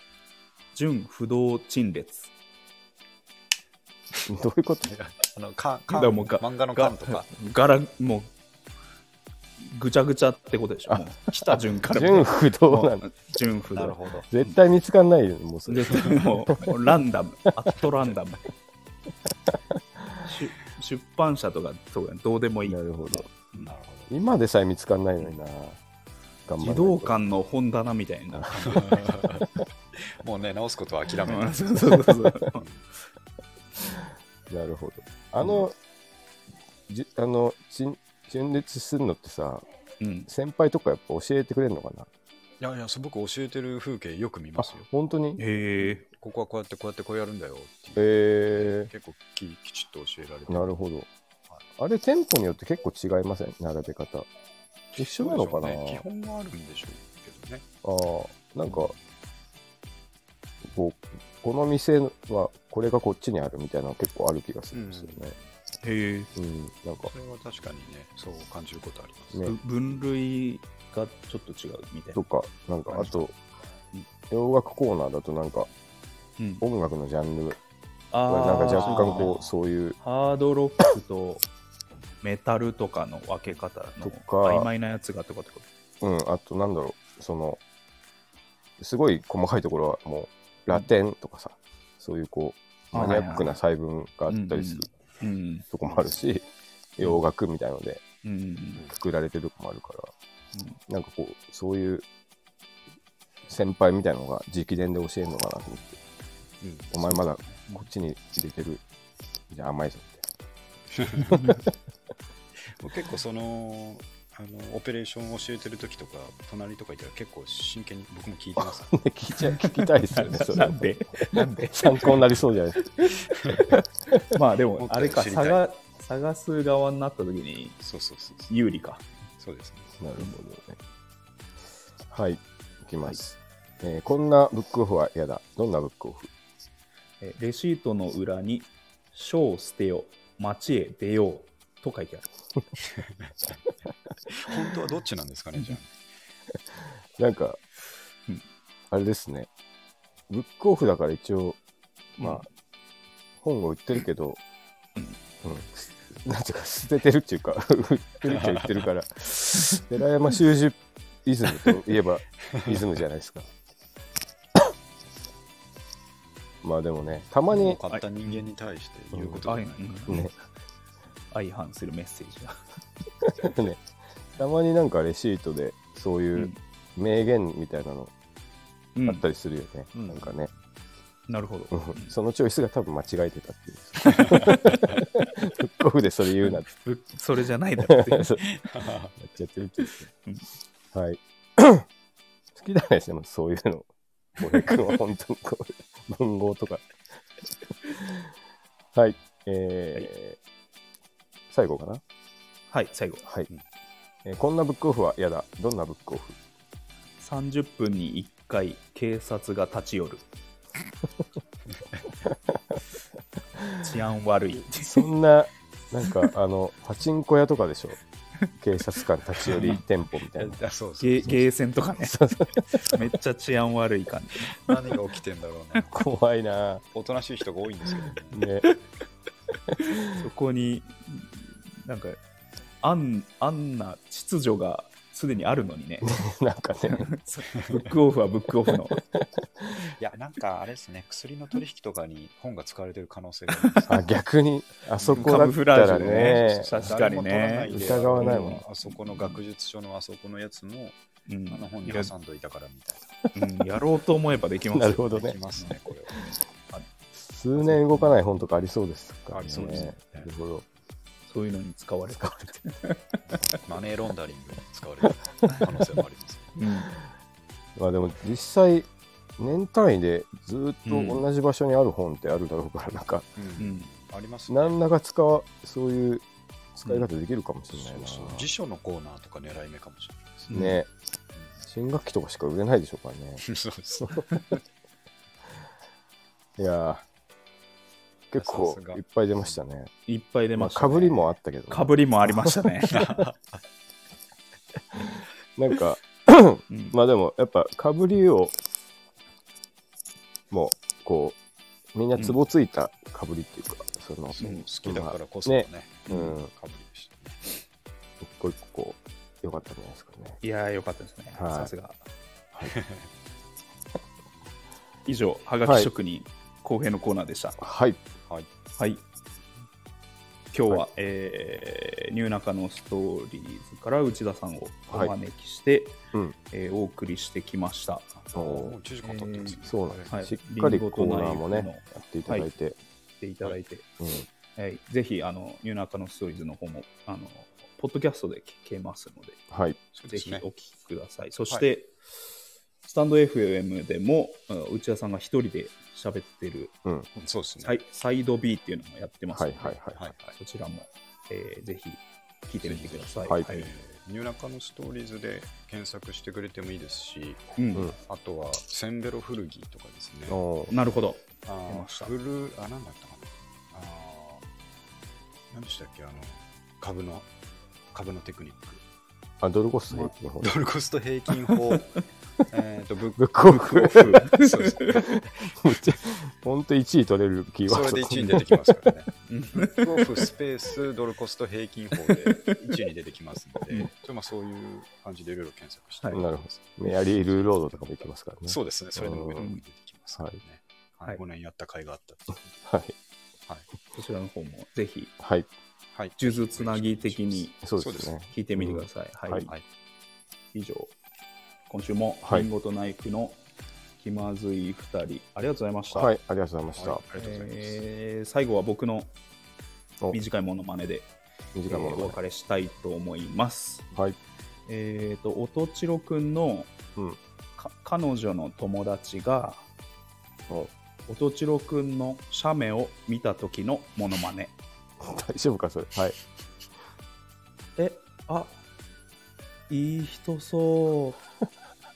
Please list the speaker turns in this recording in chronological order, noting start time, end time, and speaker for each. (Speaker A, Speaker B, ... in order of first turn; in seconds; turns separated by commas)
Speaker A: 0.7-2.3, Speaker B: 4.2-4.9, Speaker C: 4.8-7.3, Speaker A: 5.9-8.3, Speaker A: 9.6-14.5, Speaker C: 11.3-11.8, Speaker B: 11.9-13.0, Speaker C: 13.7-14.3, Speaker B: 14.3-16.9, Speaker A: 15.7-18.4, Speaker A: 20.2-23.7, Speaker B: 22.7-23.3, Speaker C: 23.5-24.1, Speaker B: 24.1-25.8, Speaker B: 26.4-27.2, Speaker A: 26.6-29.0, Speaker B: 28.3-28.9, Speaker C: 28.7-31.7, Speaker A: 31.3-32.6, Speaker B: 31.9-32.3, Speaker B: 34.5-35.8, Speaker B: 36.9-39.6, Speaker A: 40.0-40.3, Speaker B: 40.3-42.1, Speaker C: 42.6-44.9, Speaker B: 44.6-45.4, Speaker A: 45.4-46.0, Speaker C: 46.0-50.7, Speaker B: 48.0-48.9, Speaker B: 50.5-51.1, Speaker B: 51.8-54.3, Speaker B: 55.0-56.0, Speaker C: 55.0-57.6, Speaker B: 57.8-58.9, Speaker C: 58.7-58.9, Speaker B: 60.6-65.3, Speaker C: 64.7-65.4, Speaker A: 65.8-66.3, Speaker B: 66.3-67.1, Speaker C: 67.0-69.5, Speaker A: 69.4-72.2, Speaker B: 72.2-73.3, Speaker B: 74.3-75.7, Speaker B: 76.6-77.6, Speaker A: 78.1-79.4, Speaker B: 78.2-80.0, Speaker C: 78.7-79.4, Speaker A: 80.0-81.4, Speaker A: 82.2-85.6, Speaker B: 84.0-84.7, Speaker B: 86.0-87.6, Speaker B: 88.8-94.9, Speaker A: 92.9-93.5, Speaker A: 94.3-95.6, Speaker B: 95.7-96.4, Speaker B: 97.0-98.0, Speaker A: 98.2-98.8, Speaker B: 98.9-100.1, Speaker B: 100.9-102.1, Speaker B: 103.5-106.0, Speaker C: 106.6-107.2, Speaker B: 106.9-108.8, Speaker B: 109.5-110.2, Speaker C: 111.0-111.4, Speaker A: 111.3-111.6, Speaker C: 112.8-118.9, Speaker B: 118.6-123.3, Speaker A: 119.6-122.2, Speaker C: 120.2-120.7, Speaker A: 123.7-127.8, Speaker C: 124.8-125.6, Speaker C: 127.8-128.5, Speaker A: 128.5-129.0, Speaker C: 129.4-129.9, Speaker B: 130.0-130.8, Speaker B: 132.1-136.3, Speaker A: 137.2-142.3, Speaker C: 144.3-145.9, Speaker B: 147.2-147.6, Speaker B: 148.9-149.5, Speaker B: 150.3-151.6, Speaker A: 152.2-152.4, Speaker B: 152.2-152.4, Speaker B: 153.4-154.4, Speaker B: 155.4-163.5, Speaker C: 158.3-158.7, Speaker B: 166.6-167.8, Speaker C: 167.5-170.2, Speaker B: 169.1-169.5, Speaker A: 169.5-170.3, Speaker B: 170.1-170.3, Speaker A: 171.3-172.6, Speaker B: 173.2-173.8, Speaker B: 174.4-178.1, Speaker A: 178.9-179.2, Speaker B: 179.0-180.5, Speaker C: 179.9-180.4, Speaker A: 181.3-182.1, Speaker B: 181.7-186.7, Speaker A: 184.3-184.8, Speaker A: 186.4-188.4, Speaker B: 187.8-188.4, Speaker C: 188.5-189.1, Speaker B: 189.2-190.1, Speaker B: 190.9-191.8, Speaker B: 192.5-193.9, Speaker B: 194.4-196.9, Speaker B: 197.9-198.3, Speaker B: 198.9-200.4, Speaker B: 201.5-202.0, Speaker A: 202.7-203.2, Speaker B: 204.2-206.3, Speaker A: 207.2-210.2, Speaker B: 212.3-212.8, Speaker A: 213.8-215.0, Speaker B: 214.7-218.0, Speaker B: 218.6-220.6, Speaker C: 220.3-221.5, Speaker A: 221.0-222.2, Speaker B: 222.0-222.9, Speaker A: 222.7-224.7, Speaker C: 224.5-226.0, Speaker B: 225.9-226.8, Speaker C: 226.9-228.4, Speaker B: 228.3-228.7, Speaker B: 229.7-230.2, Speaker A: 230.0-232.2, Speaker A: 232.8-236.1, Speaker B: 236.0-237.1, Speaker A: 237.0-239.0, Speaker B: 238.9-239.7, Speaker C: 240.0-244.0, Speaker B: 243.8-246.8, Speaker C: 245.0-251.0, Speaker A: 245.1-249.4, Speaker B: 247.7-248.6, Speaker A: 251.3-252.1, Speaker C: 251.5-253.1, Speaker A: 253.3-256.9, Speaker B: 254.7-255.4, Speaker C: 255.1-256.1, Speaker B: 257.2-260.6, Speaker A: 257.5-258.2, Speaker C: 259.3-260.3, Speaker A: 259.5-259.9, Speaker A: 261.3-263.2, Speaker B: 262.2-262.5, Speaker C: 263.3-266.6, Speaker A: 266.6-267.0, Speaker B: 267.8-273.3, Speaker A: 270.9-271.2, Speaker C: 273.4-274.8, Speaker A: 273.6-273.9, Speaker B: 274.5-278.5, Speaker C: 277.7-280.5, Speaker A: 280.5-280.8, Speaker B: 280.5-280.9, Speaker B: 281.6-283.4, Speaker C: 283.4-284.2, Speaker B: 284.0-284.4, Speaker B: 286.6-287.0, Speaker B: 288.3-289.9, Speaker C: 288.4-289.6, Speaker A: 290.1-293.0, Speaker B: 290.6-293.2, Speaker C: 292.9-293.4, Speaker B: 295.6-298.6, Speaker A: 296.7-297.0, Speaker B: 300.5-301.4, Speaker B: 301.9-306.5, Speaker C: 304.3-307.4, Speaker A: 306.1-306.4, Speaker B: 308.2-310.4, Speaker A: 310.4-312.0, Speaker B: 311.3-311.7, Speaker C: 312.6-313.0, Speaker A: 315.1-317.6, Speaker B: 315.6-315.9, Speaker B: 317.6-318.0, Speaker A: 318.8-319.0, Speaker A: 320.5-326.0, Speaker A: 326.5-328.1, Speaker C: 328.1-330.1, Speaker B: 328.3-328.8, Speaker A: 329.0-332.5, Speaker B: 329.6-332.8, Speaker A: 333.2-333.9, Speaker B: 334.0-334.2, Speaker A: 334.5-339.5, Speaker B: 339.5-339.8, Speaker C: 339.9-340.4, Speaker A: 340.1-341.9, Speaker A: 342.8-346.8, Speaker C: 347.1-347.8, Speaker A: 347.6-349.8, Speaker B: 349.3-350.1, Speaker C: 350.0-350.4, Speaker A: 350.3-353.7, Speaker C: 352.6-360.4, Speaker A: 357.6-357.9, Speaker B: 360.3-360.7, Speaker A: 360.7-362.1, Speaker C: 361.4-364.4, Speaker C: 365.5-367.3, Speaker C: 367.9-368.8, Speaker B: 369.4-370.5, Speaker C: 370.4-371.9, Speaker C: 372.5-375.6, Speaker B: 373.2-374.3, Speaker A: 373.4-375.0, Speaker B: 374.8-378.9, Speaker C: 377.7-392.5, Speaker A: 379.3-380.0, Speaker A: 382.1-382.6, Speaker B: 386.1-389.4, Speaker B: 392.6-392.9, Speaker A: 393.9-395.1, Speaker B: 395.2-395.5, Speaker C: 395.9-398.1, Speaker A: 396.2-397.5, Speaker B: 397.6-399.5, Speaker A: 398.3-399.5, Speaker A: 400.5-400.9, Speaker A: 401.7-403.4, Speaker A: 404.0-406.1, Speaker B: 405.9-407.0, Speaker C: 406.8-407.8, Speaker A: 407.1-409.1, Speaker A: 410.1-411.1, Speaker B: 411.5-412.2, Speaker A: 411.7-413.8, Speaker B: 413.9-414.2, Speaker A: 414.7-416.7, Speaker A: 417.6-419.6, Speaker A: 421.1-424.5, Speaker B: 425.0-426.2, Speaker A: 427.8-428.6, Speaker A: 429.7-431.2